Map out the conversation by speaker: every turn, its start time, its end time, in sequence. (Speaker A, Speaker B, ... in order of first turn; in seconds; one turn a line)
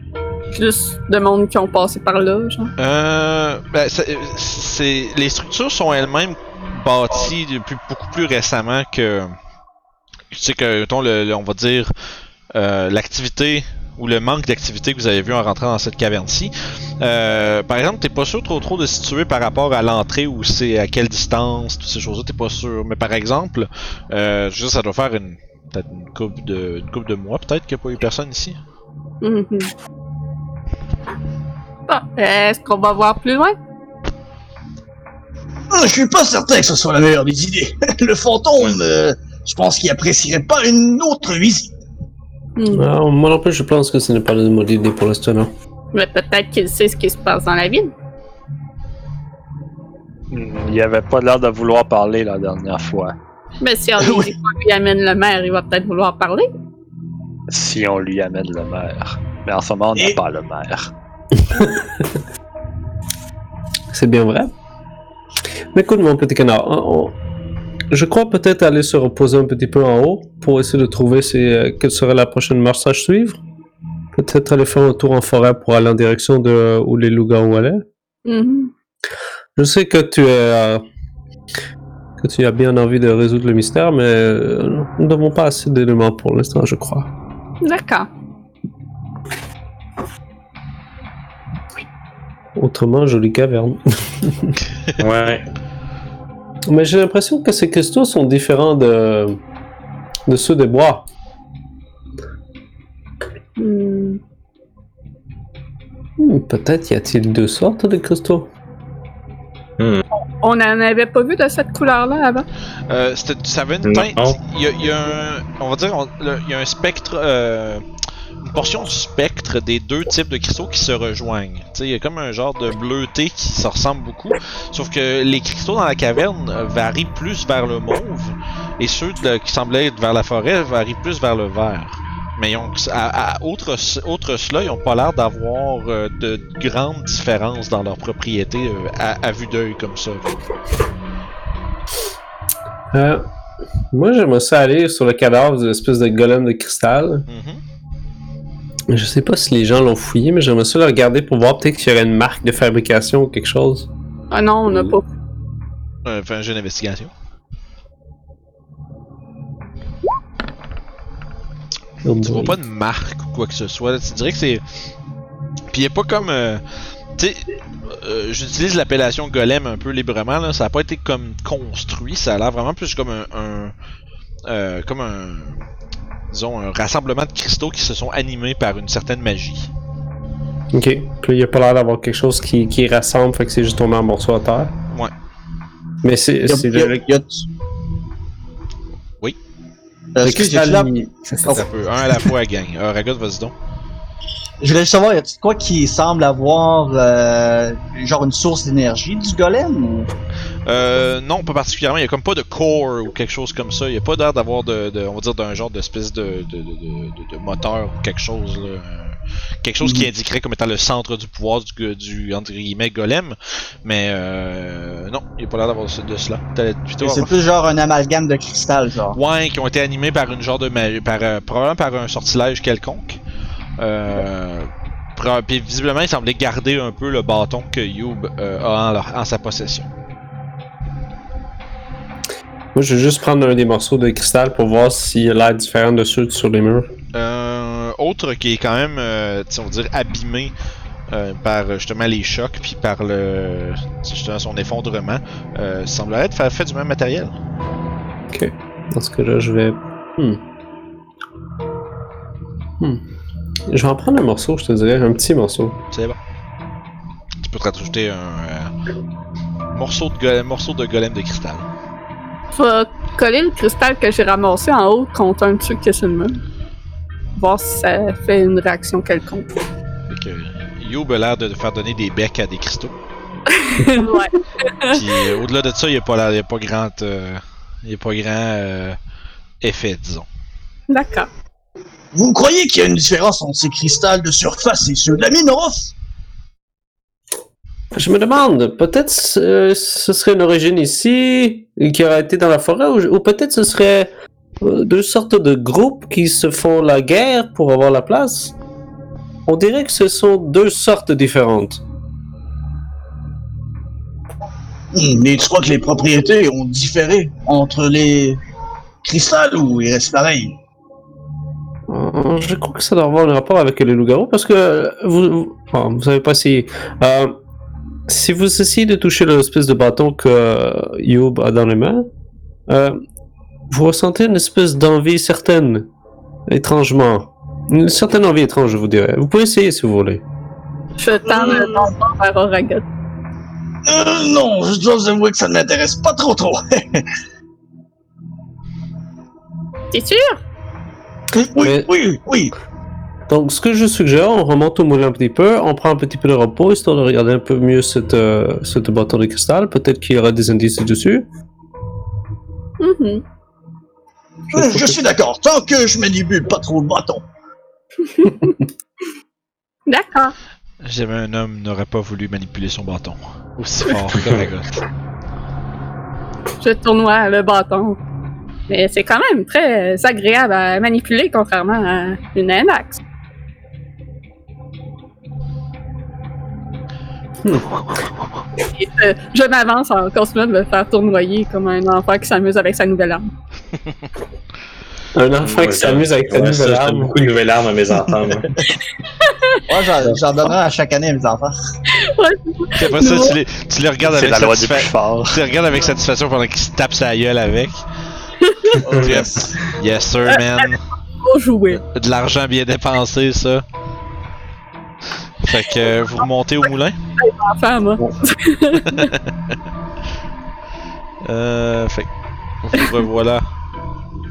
Speaker A: 0.6-2.7
Speaker B: 2.8-9.3
Speaker B: 10.3-11.9
Speaker B: 12.5-28.6
Speaker A: 29.2-29.7
Speaker A: 31.9-33.6
Speaker C: 35.7-41.7
Speaker A: 42.6-42.9
Speaker D: 42.7-45.5
Speaker A: 45.9-47.9
Speaker E: 50.3-53.1
Speaker A: 53.6-56.5
Speaker C: 54.0-54.3
Speaker E: 57.5-60.9
Speaker D: 61.6-61.9
Speaker D: 63.9-64.5
Speaker D: 65.7-67.2
Speaker D: 67.9-73.4
Speaker D: 74.2-77.8
Speaker A: 78.3-78.7
Speaker D: 79.6-80.8
Speaker D: 82.2-87.1
Speaker A: 87.6-88.1
Speaker D: 92.5-94.5
Speaker F: 95.0-95.4
Speaker D: 96.7-99.4
Speaker D: 100.3-101.0
Speaker A: 103.6-104.2
Speaker D: 106.2-108.5
Speaker F: 109.8-110.0
Speaker A: 110.4-112.5
Speaker B: 112.9-117.8
Speaker F: 113.8-114.4
Speaker B: 118.4-140.3
Speaker D: 142.9-143.3
Speaker D: 143.9-147.3
Speaker B: 147.3-147.6
Speaker D: 148.9-153.9
Speaker A: 154.3-155.1
Speaker D: 154.7-155.0
Speaker B: 156.1-157.1
Speaker D: 162.0-162.6
Speaker B: 162.2-164.6
Speaker B: 165.7-166.6
Speaker B: 167.2-173.7
Speaker B: 174.5-175.6
Speaker B: 176.3-179.7
Speaker D: 180.7-184.7
Speaker D: 186.0-187.1
Speaker C: 186.5-187.4
Speaker C: 190.1-191.6
Speaker D: 190.2-191.7
Speaker B: 191.5-193.5
Speaker C: 194.6-200.1
Speaker B: 200.7-217.4
Speaker C: 217.0-219.2
Speaker B: 219.1-223.2
Speaker B: 223.8-229.9
Speaker D: 232.8-236.9
Speaker B: 237.1-240.5
Speaker B: 241.1-247.3
Speaker D: 248.3-250.4
Speaker D: 253.7-255.8
Speaker B: 255.9-256.2
Speaker B: 257.4-258.7
Speaker B: 259.7-261.7
Speaker A: 262.6-266.4
Speaker A: 267.4-269.5
Speaker B: 270.1-273.0
Speaker A: 273.6-275.0
Speaker B: 274.9-279.0
Speaker B: 279.6-280.3
Speaker A: 280.9-281.3
Speaker C: 282.1-285.9
Speaker D: 287.9-298.5
Speaker D: 299.5-301.8
Speaker C: 304.9-308.4
Speaker C: 309.0-310.6
Speaker D: 311.9-317.4
Speaker D: 318.1-322.1
Speaker D: 322.7-323.0
Speaker D: 323.7-325.9
Speaker D: 326.5-330.2
Speaker A: 331.0-332.9
Speaker C: 331.2-331.9
Speaker C: 333.9-337.1
Speaker A: 339.9-340.4
Speaker C: 341.3-342.5
Speaker D: 341.6-341.9
Speaker D: 343.3-351.3
Speaker A: 352.8-353.2
Speaker C: 354.5-357.2
Speaker A: 358.1-358.5
Speaker A: 359.9-360.4
Speaker B: 360.8-364.7
Speaker A: 366.6-368.0
Speaker A: 368.7-373.0
Speaker A: 378.7-383.3
Speaker D: 385.1-387.2
Speaker F: 385.4-388.5
Speaker A: 389.2-389.6
Speaker C: 389.7-391.6
Speaker A: 391.9-393.3
Speaker B: 392.8-397.8
Speaker E: 394.0-395.4
Speaker A: 398.4-398.8
Speaker C: 398.8-399.6
Speaker B: 399.0-400.8
Speaker A: 401.2-401.8
Speaker B: 401.9-403.6
Speaker B: 405.4-407.0
Speaker A: 407.2-409.1
Speaker B: 408.7-409.6
Speaker B: 411.2-412.1
Speaker B: 412.6-413.5